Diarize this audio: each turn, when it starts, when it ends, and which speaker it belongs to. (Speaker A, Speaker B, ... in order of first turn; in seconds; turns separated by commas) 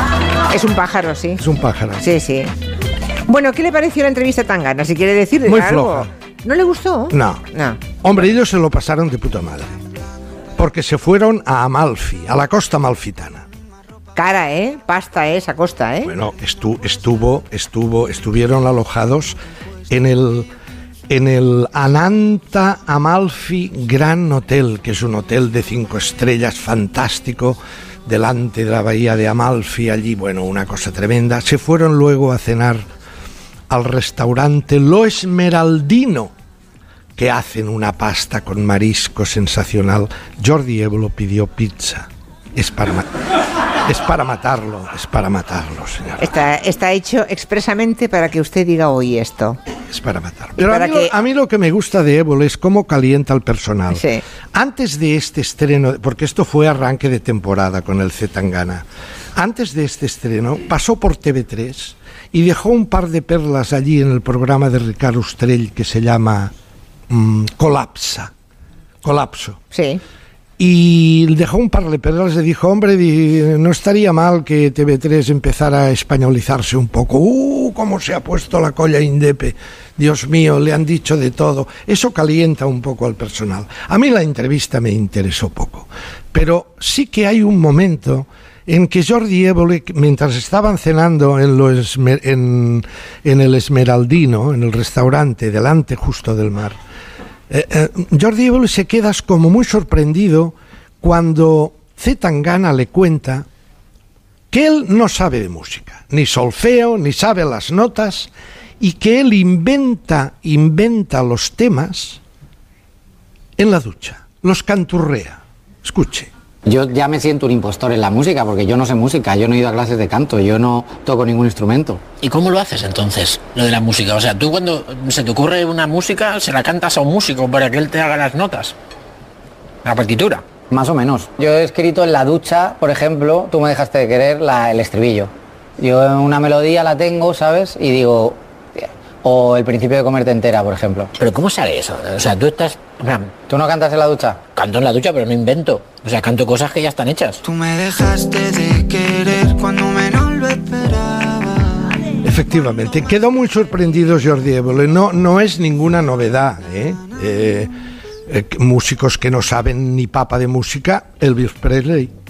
Speaker A: 0.5-1.4, Speaker B: 1.4-2.0, Speaker A: 2.0-2.5, Speaker A: 3.2-7.9, Speaker B: 5.5-6.1, Speaker B: 7.1-7.4, Speaker B: 8.0-9.8, Speaker B: 10.6-13.4, Speaker A: 14.1-16.1, Speaker B: 16.0-19.4, Speaker B: 19.9-20.5, Speaker B: 21.1-32.8, Speaker B: 33.7-36.3, Speaker B: 37.2-43.0, Speaker B: 43.9-46.3, Speaker A: 46.2-49.6, Speaker B: 49.9-54.0, Speaker A: 50.6-51.1, Speaker A: 53.9-54.2, Speaker B: 54.5-58.8, Speaker B: 59.4-66.5, Speaker B: 67.1-68.3, Speaker B: 69.0-69.6, Speaker A: 69.7-70.0, Speaker B: 70.6-96.8, Speaker B: 97.5-103.4, Speaker B: 104.5-112.2, Speaker B: 113.6-116.3, Speaker C: 116.7-122.0, Speaker D: 122.2-128.7, Speaker D: 129.8-130.4, Speaker C: 130.7-141.1, Speaker D: 141.2-143.4, Speaker C: 143.5-144.5, Speaker D: 144.5-147.4, Speaker E: 147.4-151.9, Speaker B: 152.2-157.7, Speaker B: 158.3-162.1